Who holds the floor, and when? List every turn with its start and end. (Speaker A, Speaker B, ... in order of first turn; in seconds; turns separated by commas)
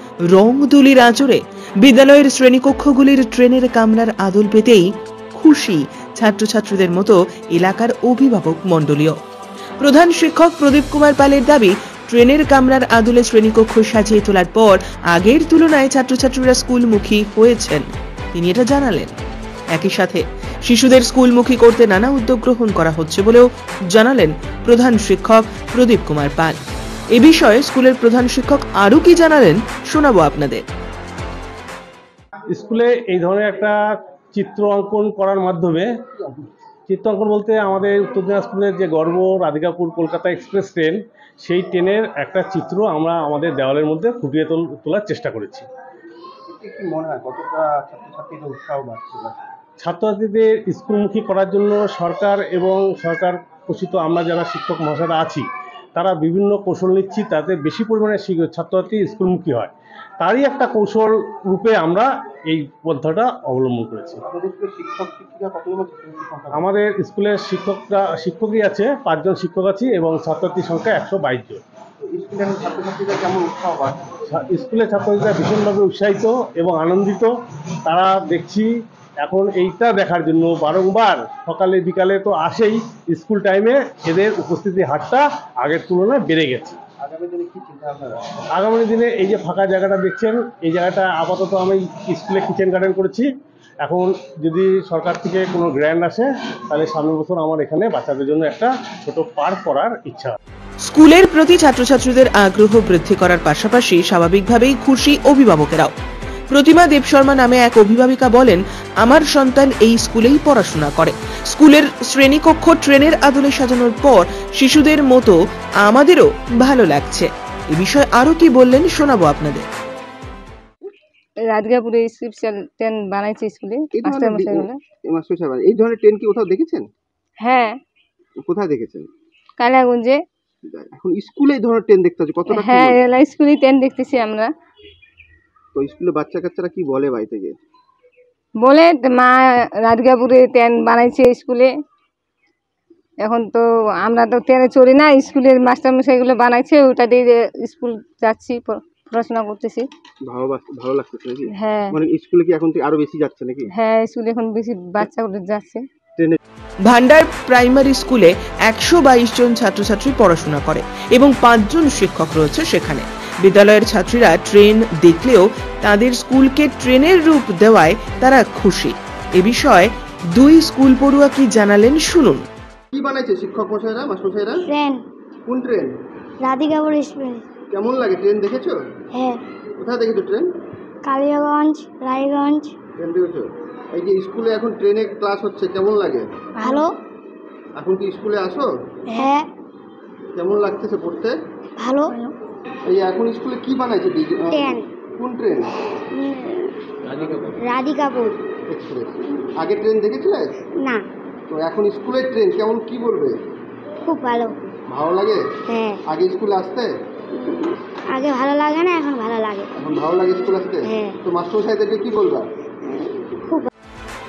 Speaker A: 0.3-9.2, Speaker A: 9.8-19.1, Speaker A: 19.7-26.6, Speaker A: 27.1-30.6, Speaker B: 32.5-33.8, Speaker B: 34.3-35.9, Speaker B: 36.9-45.7, Speaker C: 46.5-49.4, Speaker B: 49.8-55.5, Speaker B: 56.0-64.2, Speaker C: 64.3-66.6, Speaker B: 66.5-71.6, Speaker C: 72.0-74.0, Speaker B: 74.3-77.3, Speaker B: 77.9-78.7, Speaker B: 79.2-86.8, Speaker C: 87.0-88.3, Speaker B: 88.5-93.3, Speaker B: 93.8-100.4, Speaker A: 100.8-105.9, Speaker A: 106.5-119.7, Speaker D: 121.5-124.8, Speaker C: 124.0-126.8, Speaker D: 127.4-127.8, Speaker C: 128.4-129.1, Speaker D: 129.6-130.2, Speaker C: 130.7-133.0, Speaker D: 132.5-134.5, Speaker C: 135.8-137.6, Speaker D: 138.6-141.7, Speaker D: 143.2-149.8, Speaker C: 150.3-153.7, Speaker D: 151.6-152.0, Speaker D: 153.8-155.8, Speaker A: 156.9-172.4, Speaker C: 172.9-174.7, Speaker E: 174.7-175.0, Speaker C: 175.5-175.9, Speaker E: 176.4-177.5, Speaker C: 177.7-178.8, Speaker E: 179.1-179.4, Speaker C: 179.8-180.5, Speaker E: 181.1-182.7, Speaker C: 183.0-186.3, Speaker E: 186.6-186.9, Speaker C: 187.8-188.7, Speaker E: 189.1-189.5, Speaker C: 190.3-191.4, Speaker E: 191.8-192.2, Speaker C: 192.9-195.7, Speaker E: 194.5-194.9, Speaker E: 196.1-196.8, Speaker C: 197.1-197.5, Speaker E: 197.6-198.4, Speaker C: 198.7-200.5, Speaker C: 201.5-203.4, Speaker E: 204.1-204.5, Speaker C: 204.9-205.4, Speaker E: 205.7-206.0, Speaker C: 206.1-206.9, Speaker E: 207.3-209.7, Speaker C: 209.8-212.4, Speaker E: 210.8-211.2, Speaker E: 212.8-213.7